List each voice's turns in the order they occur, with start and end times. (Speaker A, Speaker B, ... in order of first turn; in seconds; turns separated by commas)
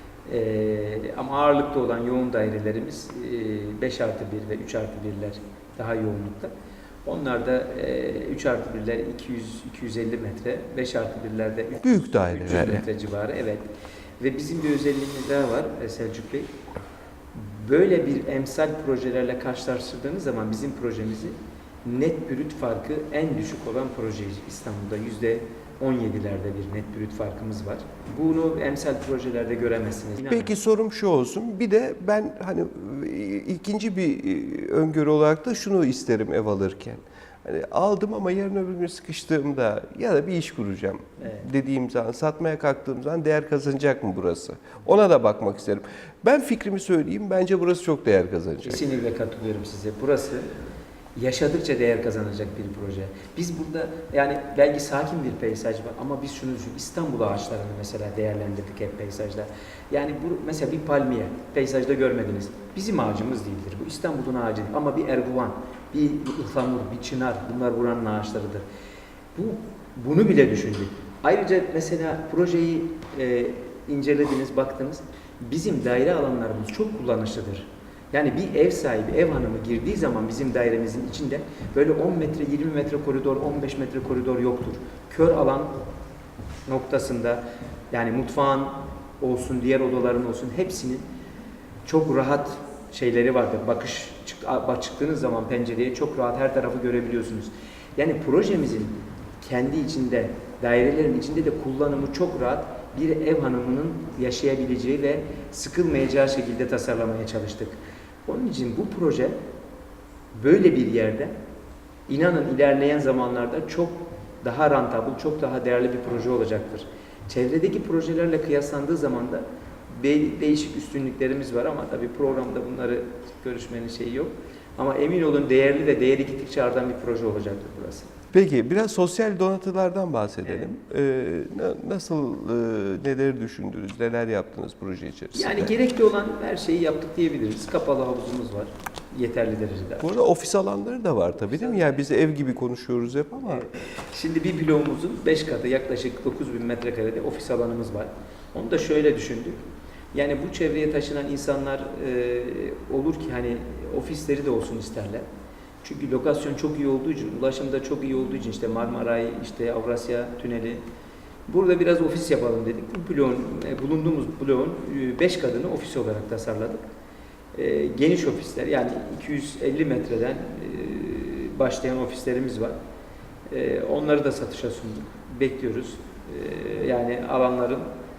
Speaker A: 0.3-6.5, Speaker A: 7.0-13.7, Speaker B: 11.8-12.8, Speaker A: 14.2-16.5, Speaker A: 17.3-30.5, Speaker B: 30.2-48.9, Speaker A: 41.2-41.5, Speaker A: 48.6-50.5, Speaker A: 51.2-68.6, Speaker A: 69.3-85.8, Speaker A: 86.7-91.1, Speaker A: 91.8-109.4, Speaker A: 110.3-111.3, Speaker A: 112.1-128.1, Speaker B: 128.3-135.7, Speaker A: 130.4-130.7, Speaker A: 135.3-140.2, Speaker B: 140.0-143.7, Speaker A: 141.4-142.0, Speaker A: 143.4-149.6, Speaker A: 150.1-155.3, Speaker A: 155.8-160.8, Speaker A: 161.5-166.8, Speaker A: 167.5-172.8, Speaker A: 173.5-177.9